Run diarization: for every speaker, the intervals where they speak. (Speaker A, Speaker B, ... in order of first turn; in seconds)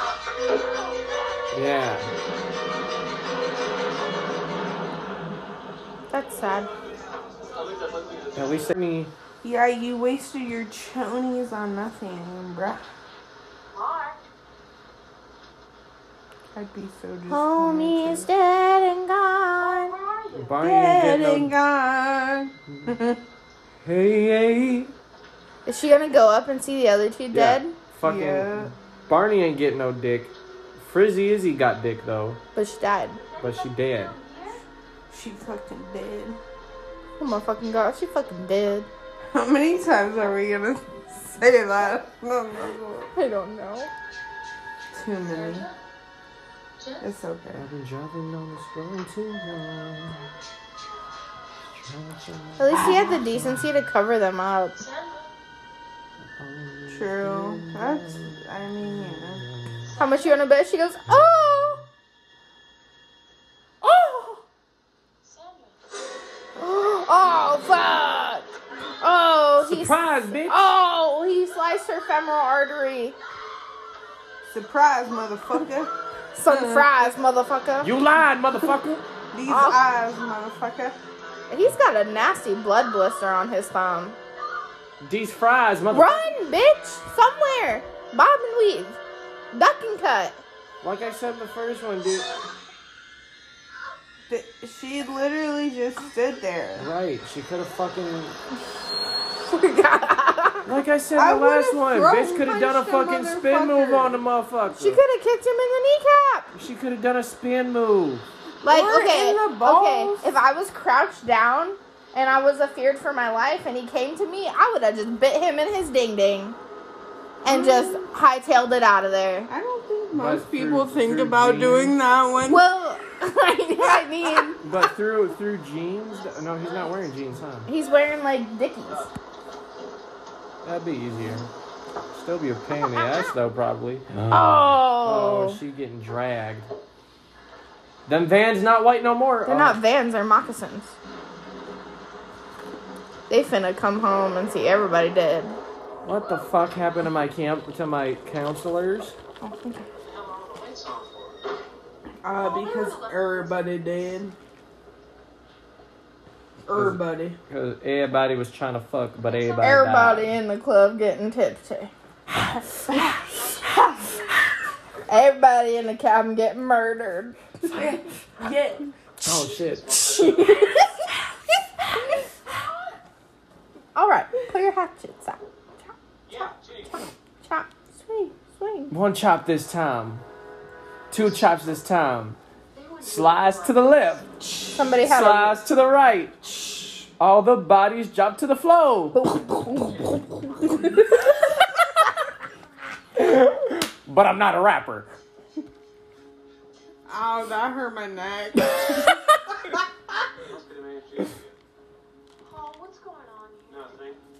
Speaker A: 1.5-2.1, 8.3-9.1, 20.3-21.5, 23.8-24.9, 27.3-32.4, 33.4-34.1, 47.5-50.3, 51.7-53.7, 56.4-60.0, 61.1-61.9, 69.6-70.7, 77.8-79.0, 85.0-86.3, 90.8-92.3, 96.8-98.4, 100.7-105.0, 106.5-108.2, 120.1-122.0, 124.6-127.7, 130.6-131.5, 132.1-136.7, 138.1-139.8, 146.0-149.2, 156.7-160.3, 169.2-170.0, 178.9-180.2, 181.1-182.4, 183.0-189.2, 193.2-195.1
Speaker B: 6.1-6.7, 17.3-19.9, 25.6-27.8, 32.5-33.2, 37.2-38.9, 43.1-43.9, 52.6-54.8, 60.0-61.8, 63.8-64.4, 66.6-68.5, 69.0-73.2, 76.3-77.9, 79.5-79.8, 81.5-84.2, 85.9-89.0, 89.5-90.4, 99.4-100.7, 104.7-106.5, 108.6-116.6, 117.4-119.5, 122.4-124.6, 127.7-129.1, 134.3-135.6, 139.4-140.9, 143.3-145.6, 149.4-149.8, 159.6-161.9, 162.9-163.2, 165.1-167.4, 169.2-171.1, 173.9-175.4, 177.4-178.9, 184.7-185.6, 189.1-191.1
Speaker C: 7.5-8.4, 150.1-151.4, 169.7-170.7, 176.3-177.1, 200.4-201.5, 203.7-204.2
Speaker D: 9.4-12.8, 16.5-18.3, 20.6-23.2, 28.0-28.7, 35.1-36.4, 39.3-43.1, 44.9-45.7, 47.0-47.6, 52.7-53.1, 56.9-59.4, 74.5-75.9, 76.5-77.0, 79.3-81.0, 94.3-96.9, 101.1-104.2, 108.6-110.3, 117.4-118.1, 119.5-122.6, 152.2-154.3, 156.6-157.4, 163.6-164.1, 167.7-168.8, 197.1-199.2
Speaker E: 13.7-14.2, 19.6-20.6, 33.2-34.6, 45.2-45.7, 46.8-47.2, 54.8-55.3, 59.9-60.5, 65.2-65.8, 126.1-127.1, 152.3-153.6, 163.2-164.5, 182.7-184.2, 202.4-203.9